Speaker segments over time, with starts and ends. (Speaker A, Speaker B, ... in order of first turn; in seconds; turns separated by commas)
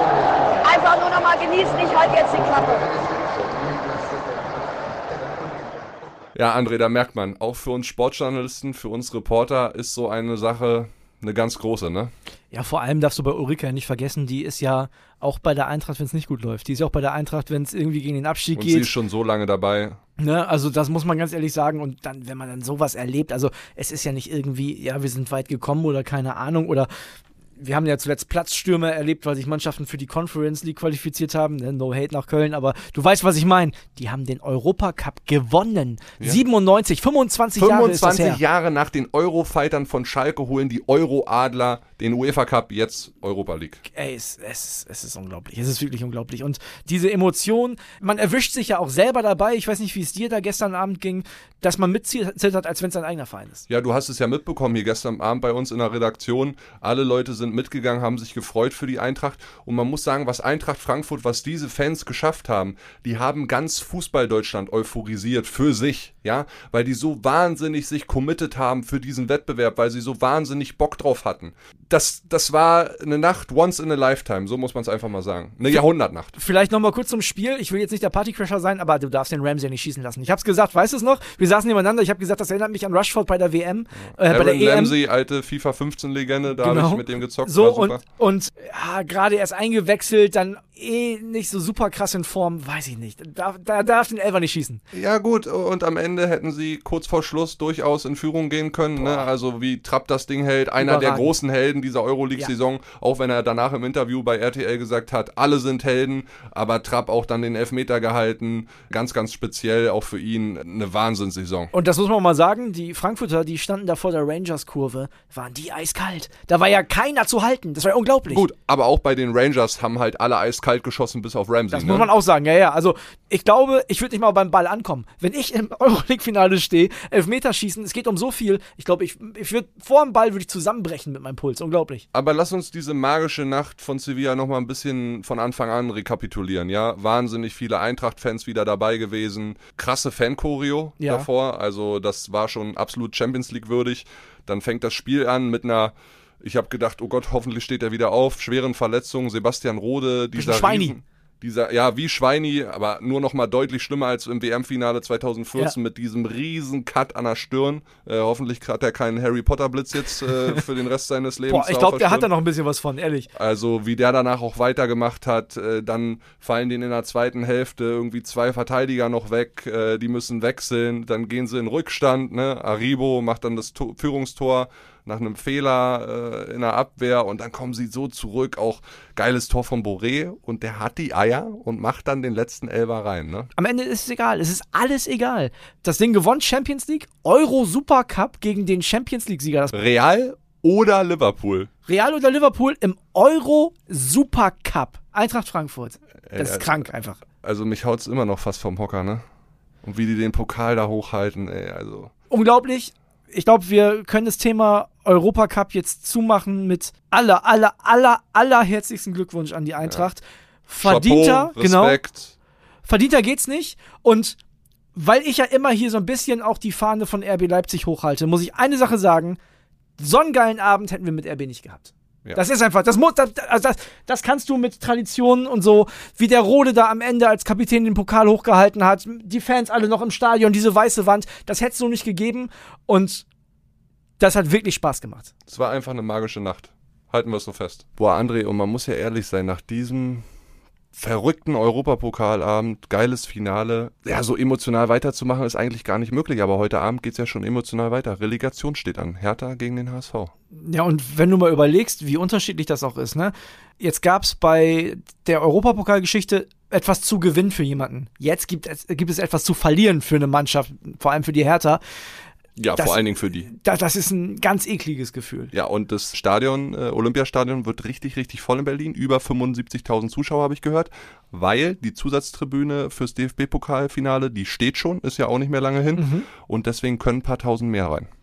Speaker A: 0.6-2.9, Speaker B: 6.3-12.1, Speaker C: 12.5-18.9, Speaker B: 18.5-20.0, Speaker C: 20.2-26.9, Speaker C: 27.6-38.4, Speaker B: 37.6-43.8, Speaker C: 43.9-53.6, Speaker B: 53.7-76.3, Speaker C: 76.3-85.0, Speaker B: 84.2-88.0, Speaker C: 86.6-94.8, Speaker B: 94.9-111.7, Speaker C: 99.0-99.2, Speaker C: 100.8-101.3, Speaker C: 111.7-118.4, Speaker B: 118.3-122.1, Speaker C: 121.7-132.0, Speaker B: 132.1-162.3, Speaker C: 141.0-141.3, Speaker C: 150.3-150.9, Speaker C: 161.5-163.3, Speaker B: 163.3-183.5, Speaker C: 183.6-189.7, Speaker B: 189.7-191.7, Speaker C: 191.9-197.2, Speaker B: 196.3-196.8, Speaker B: 197.4-199.2, Speaker B: 199.8-202.1, Speaker C: 202.3-212.0, Speaker B: 210.8-212.3, Speaker C: 212.8-214.4, Speaker C: 214.9-219.4, Speaker C: 220.0-233.2, Speaker C: 234.2-235.3, Speaker B: 235.5-240.2, Speaker B: 240.9-250.3, Speaker C: 250.5-261.8, Speaker B: 262.6-263.5, Speaker C: 262.8-265.5, Speaker B: 265.5-278.1, Speaker C: 275.9-276.3